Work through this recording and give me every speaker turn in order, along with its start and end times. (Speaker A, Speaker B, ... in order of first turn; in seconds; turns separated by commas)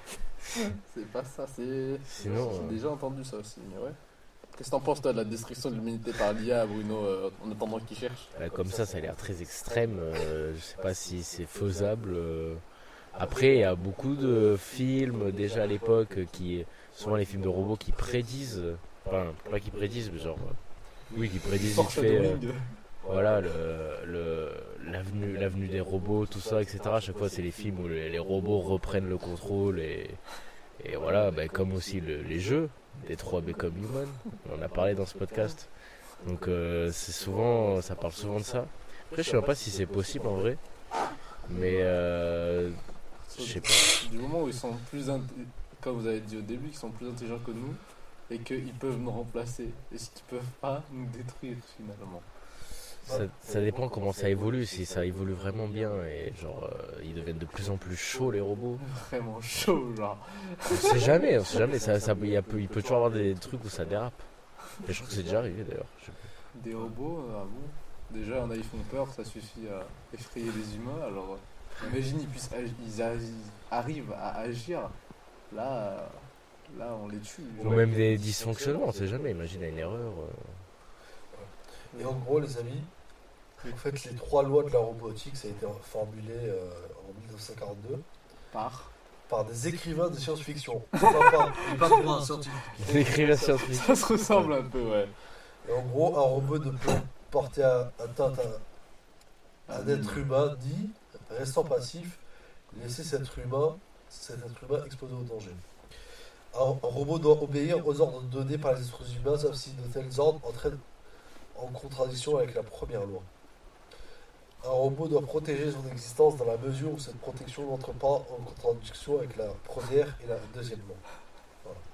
Speaker A: 0.5-4.0, Speaker B: 2.1-2.8, Speaker A: 4.5-8.3, Speaker B: 8.3-12.6, Speaker B: 13.1-20.6, Speaker B: 21.1-22.4, Speaker A: 21.4-22.7, Speaker B: 23.0-30.2, Speaker B: 30.8-35.7, Speaker B: 36.2-40.6, Speaker B: 41.5-43.9, Speaker A: 41.5-41.9, Speaker A: 43.3-52.3, Speaker C: 53.0-53.3, Speaker B: 53.0-58.8, Speaker A: 58.8-61.3, Speaker B: 60.7-64.2, Speaker B: 64.8-66.3, Speaker A: 66.5-75.0, Speaker A: 75.5-77.8, Speaker B: 77.6-80.6, Speaker C: 81.3-82.9, Speaker C: 83.6-88.0, Speaker A: 88.5-88.9, Speaker C: 89.3-92.8, Speaker A: 91.0-92.0, Speaker B: 92.8-94.5, Speaker A: 92.8-95.1, Speaker C: 95.6-98.6, Speaker A: 99.7-100.2, Speaker C: 99.7-102.2, Speaker C: 102.7-105.6, Speaker C: 106.5-110.8, Speaker C: 111.5-113.3, Speaker C: 114.6-121.0